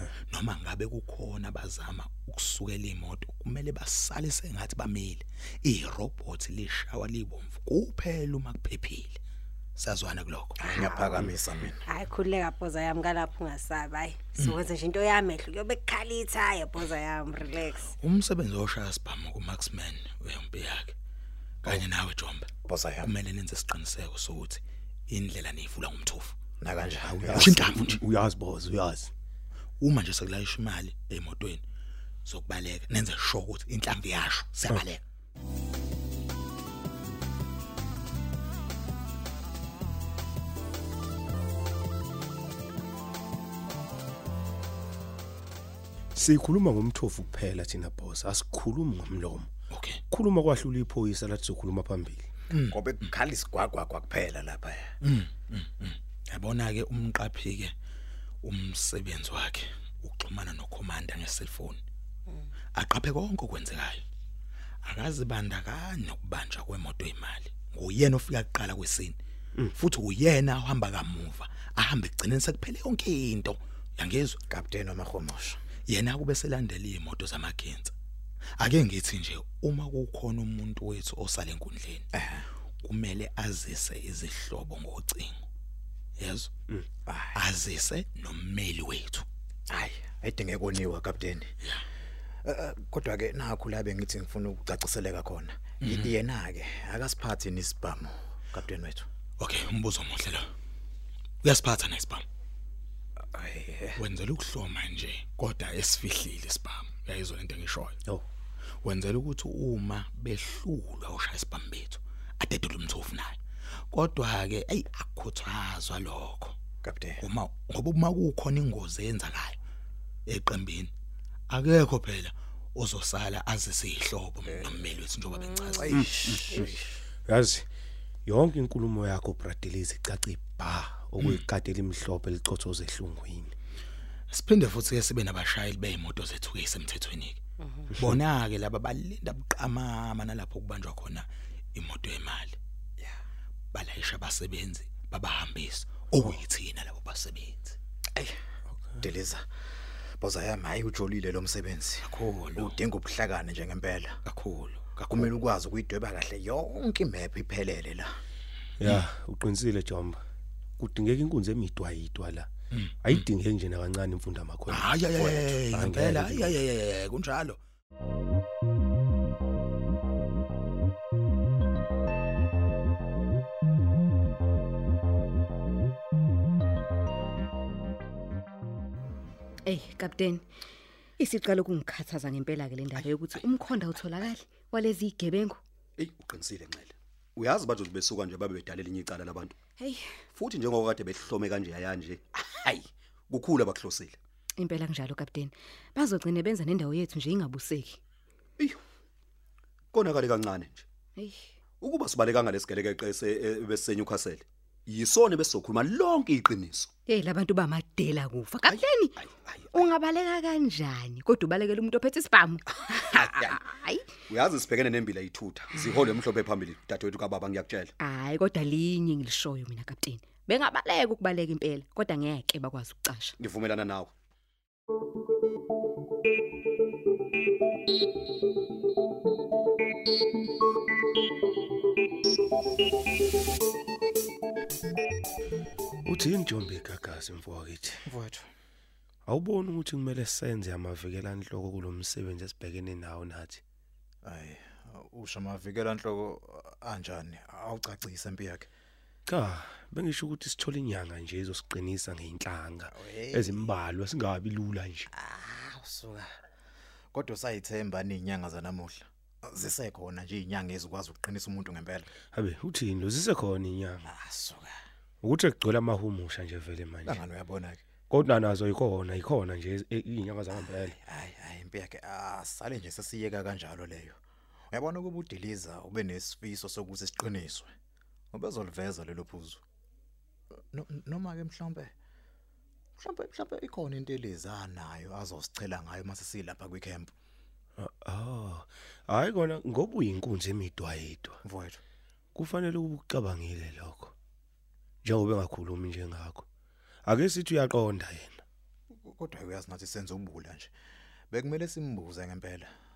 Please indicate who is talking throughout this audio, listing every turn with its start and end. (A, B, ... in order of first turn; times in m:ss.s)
0:00.3-0:09.2 A
0:09.8-0:11.3 A
0:10.6-0:11.8 B
0:11.9-0:17.9 C
0:14.4-0:14.6 A
0:18.0-0:20.9 A
0:21.6-0:26.4 A
0:22.6-0:23.1 B
0:26.6-0:27.6 B
0:27.0-0:29.1 D
0:27.3-0:28.0 A
0:29.8-0:31.6 A
0:32.2-0:35.0 A
0:46.1-0:49.5 D
0:49.7-0:50.0 A
0:50.1-0:52.3 D
0:52.5-0:54.9 B
0:52.5-0:52.8 A
0:55.0-0:57.7 A
0:58.4-1:01.8 A
1:02.7-1:04.0 A
1:04.8-1:09.2 A
1:09.7-1:14.4 A
1:14.5-1:15.6 B
1:15.9-1:17.9 A
1:18.6-1:22.1 A
1:22.1-1:22.4 B
1:22.8-1:25.4 A
1:26.2-1:26.5 A
1:27.1-1:27.4 B
1:27.3-1:29.2 A
1:29.7-1:31.5 B
1:32.4-1:39.1 B
1:35.8-1:36.1 A
1:39.4-1:40.5 A
1:41.4-1:42.2 A
1:43.3-1:44.0 B
1:44.0-1:48.0 A
1:48.8-1:53.4 A
1:53.9-1:56.6 A
1:56.8-1:57.2 B
1:57.2-1:59.6 A
2:00.2-2:00.9 A
2:01.5-2:06.4 A
2:04.4-2:04.9 B
2:05.8-2:06.9 B
2:05.9-2:06.6 D
2:07.3-2:07.7 D
2:08.2-2:13.5 D
2:14.3-2:17.4 A
2:17.9-2:22.6 A
2:23.7-2:27.8 A
2:29.0-2:29.4 B
2:30.2-2:34.2 B
2:32.0-2:32.8 A
2:34.2-2:35.3 A
2:35.0-2:38.2 B
2:38.8-2:40.2 D
2:40.8-2:42.5 D
2:42.7-2:43.2 A
2:43.0-2:46.6 D
2:44.7-2:47.6 A
2:45.1-2:45.6 B
2:59.7-3:00.4 E
3:01.2-3:05.6 E
3:06.0-3:09.6 F
3:09.8-3:10.2 E
3:10.3-3:14.2 F
3:14.6-3:18.0 E
3:19.9-3:20.8 F
3:21.2-3:21.5 E
3:21.8-3:26.9 F
3:27.1-3:29.2 E
3:28.7-3:29.8 F
3:29.7-3:34.1 E
3:32.8-3:33.7 F
3:34.3-3:37.9 F
3:38.0-3:43.3 E
3:43.4-3:44.1 F
3:56.0-3:58.0 D
3:58.0-3:58.5 B
3:59.2-4:03.6 D
4:04.2-4:08.7 B
4:09.2-4:15.1 D
4:12.9-4:13.7 B
4:15.1-4:16.3 B
4:17.1-4:22.1 B
4:22.3-4:24.1 D
4:24.0-4:24.7 B
4:25.2-4:27.2 D
4:27.0-4:27.8 B
4:28.1-4:31.0 D
4:30.9-4:34.2 B
4:34.7-4:37.7 B
4:38.3-4:39.6 B
4:40.7-4:41.9 B
4:43.0-4:47.1 B
4:47.8-4:51.4 D
4:51.4-4:51.8 B
4:52.3-4:54.1 D
4:55.0-4:56.4 D
4:57.0-4:58.4 D
4:59.0-5:00.7 B
5:01.3-5:02.7 B